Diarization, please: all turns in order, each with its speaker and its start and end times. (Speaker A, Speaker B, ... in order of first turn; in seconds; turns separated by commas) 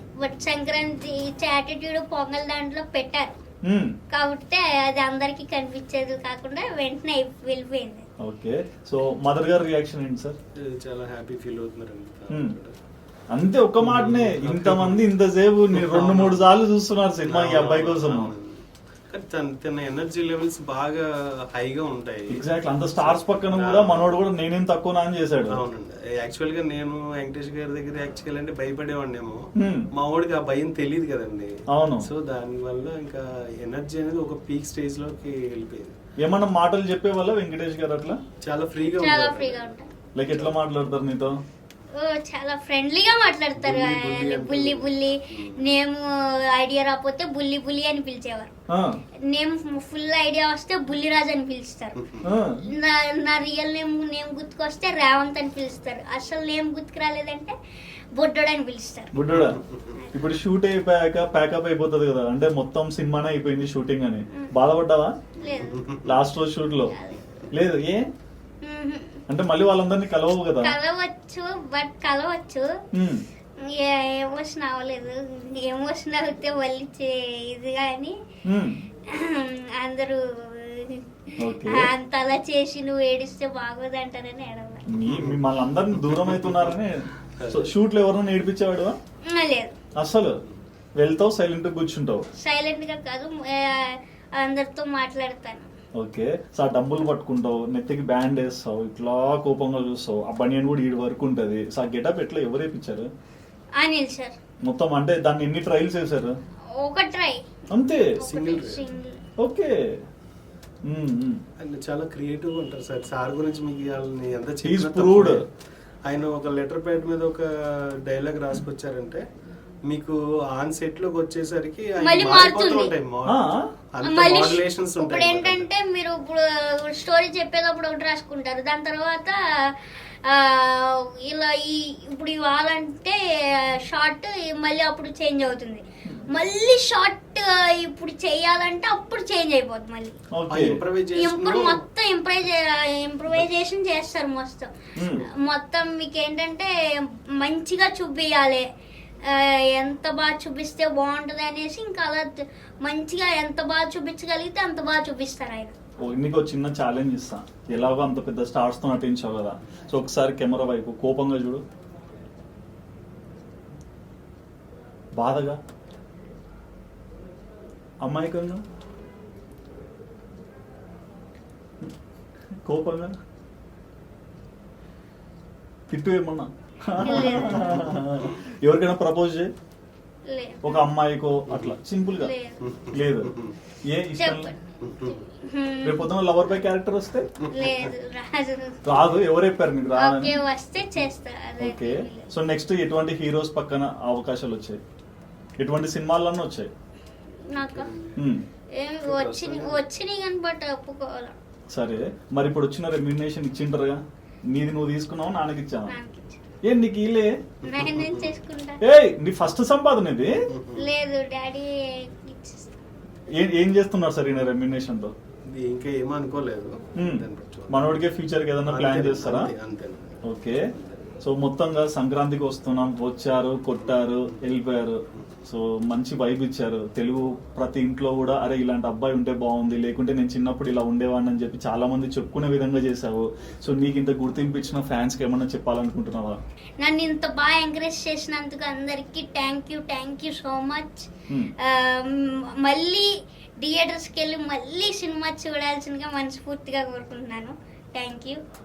Speaker A: 0.2-3.4, Speaker B: 3.6-4.0, Speaker A: 4.1-8.1, Speaker B: 8.2-10.4, Speaker C: 10.6-12.8, Speaker B: 13.3-18.3, Speaker C: 13.8-15.1, Speaker C: 15.7-16.4, Speaker C: 17.2-22.4, Speaker B: 22.3-25.6, Speaker C: 23.0-24.2, Speaker C: 25.5-36.0, Speaker B: 29.6-29.9, Speaker B: 31.7-32.1, Speaker B: 36.2-38.2, Speaker C: 38.4-39.8, Speaker A: 39.0-39.9, Speaker B: 40.2-41.4, Speaker A: 41.9-48.5, Speaker C: 43.6-45.7, Speaker B: 48.7-49.0, Speaker A: 49.2-57.5, Speaker B: 52.2-52.6, Speaker A: 58.1-59.1, Speaker B: 59.1-59.6, Speaker C: 59.3-59.8, Speaker B: 60.1-65.2, Speaker A: 65.4-65.9, Speaker C: 65.4-66.1, Speaker B: 66.0-67.0, Speaker A: 66.9-67.5, Speaker B: 67.5-68.1, Speaker A: 68.6-69.2, Speaker B: 69.3-70.7, Speaker A: 70.6-72.7, Speaker B: 72.9-73.2, Speaker A: 73.6-78.2, Speaker B: 78.5-78.8, Speaker A: 79.1-84.9, Speaker B: 81.4-81.9, Speaker B: 84.9-89.0, Speaker C: 85.0-85.4, Speaker C: 86.1-86.7, Speaker C: 87.4-87.7, Speaker A: 89.2-89.8, Speaker B: 90.0-90.4, Speaker B: 91.0-92.3, Speaker A: 92.4-95.7, Speaker B: 96.0-103.1, Speaker A: 103.8-104.4, Speaker B: 104.6-106.4, Speaker A: 106.7-107.5, Speaker B: 107.7-108.2, Speaker A: 108.0-109.2, Speaker C: 108.2-108.8, Speaker B: 109.4-110.0, Speaker B: 110.9-111.4, Speaker C: 111.6-115.4, Speaker B: 114.6-115.4, Speaker C: 116.1-119.2, Speaker C: 119.9-125.7, Speaker A: 122.0-122.9, Speaker B: 123.3-123.7, Speaker A: 124.0-140.2, Speaker B: 140.4-140.8, Speaker C: 140.5-141.8, Speaker A: 141.2-144.7, Speaker B: 145.0-145.2, Speaker A: 145.3-148.7, Speaker A: 149.2-155.8, Speaker B: 156.0-161.6, Speaker B: 165.1-165.6, Speaker B: 168.0-168.6, Speaker B: 172.7-173.2, Speaker B: 175.9-179.5, Speaker A: 177.0-177.9, Speaker C: 177.5-178.3, Speaker A: 180.3-180.8, Speaker B: 180.6-182.3, Speaker C: 181.5-181.8, Speaker A: 182.2-182.6, Speaker C: 182.6-183.6, Speaker B: 182.9-184.5, Speaker A: 184.2-186.1, Speaker C: 184.8-185.2, Speaker B: 185.8-187.5, Speaker A: 187.5-188.8, Speaker C: 187.6-187.9, Speaker B: 188.8-190.4, Speaker A: 190.0-192.3, Speaker B: 191.6-194.8, Speaker B: 195.6-196.7, Speaker A: 197.5-197.9, Speaker C: 197.6-198.2, Speaker B: 198.2-198.4, Speaker A: 198.7-201.4, Speaker C: 199.1-199.8, Speaker B: 201.7-205.9, Speaker A: 205.9-206.4, Speaker B: 206.6-207.4, Speaker C: 207.6-208.4, Speaker A: 207.6-208.8, Speaker B: 208.8-210.5, Speaker C: 210.5-210.9, Speaker A: 210.8-212.8, Speaker B: 213.4-215.1, Speaker C: 215.5-217.9, Speaker B: 217.0-219.5, Speaker C: 218.7-221.0, Speaker B: 220.2-220.7, Speaker B: 221.2-236.4, Speaker A: 236.8-248.4